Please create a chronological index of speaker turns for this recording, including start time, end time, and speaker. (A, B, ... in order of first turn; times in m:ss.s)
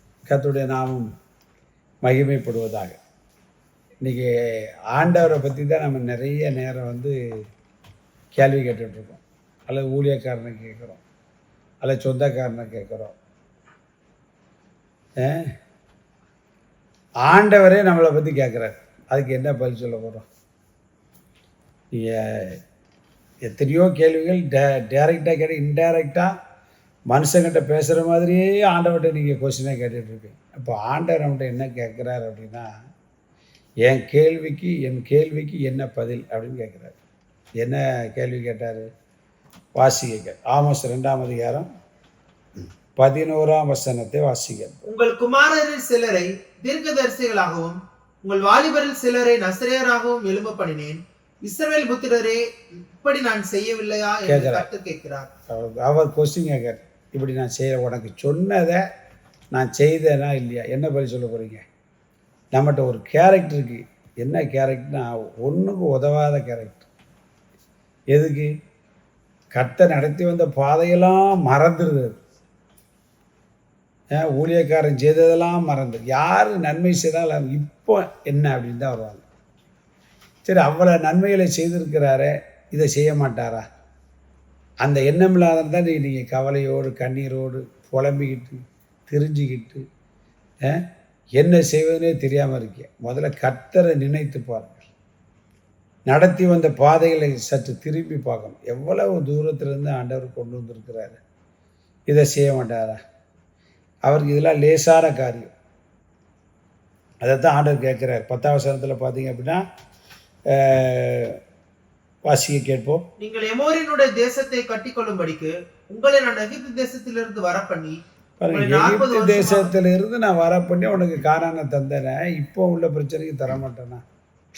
0:00.3-0:01.1 A
0:02.0-0:03.0 A
0:04.0-0:04.3 A
0:04.9-0:07.1 A
0:08.3-0:11.0 A
0:11.8-0:13.1 A
0:15.2-0:15.5 A
0:17.2-0:20.2 A
0:21.9-0:22.6 A
0:23.4-0:26.3 A
0:27.1-0:32.7 A
0:33.8-0:36.9 A
0:37.6-0:38.9 A
0:39.8-0:41.7 A
0:43.0-0:44.9 A
0:44.8-0:52.4 B
0:52.9-0:55.3 B
0:54.3-0:54.6 A
0:55.5-0:58.8 A
0:59.5-1:01.6 A
1:02.5-1:06.9 A
1:08.1-1:08.5 A
1:09.5-1:12.2 A
1:14.1-1:19.2 A
1:20.4-1:23.6 A
1:24.8-1:29.8 A
1:31.4-1:34.9 A
1:36.1-1:41.2 A
1:42.1-1:43.0 A
1:44.1-1:45.5 A
1:47.2-1:49.6 A
1:50.5-1:51.4 A
1:52.2-1:53.0 A
1:53.2-1:58.0 B
1:58.4-2:04.0 A
1:58.5-1:59.7 B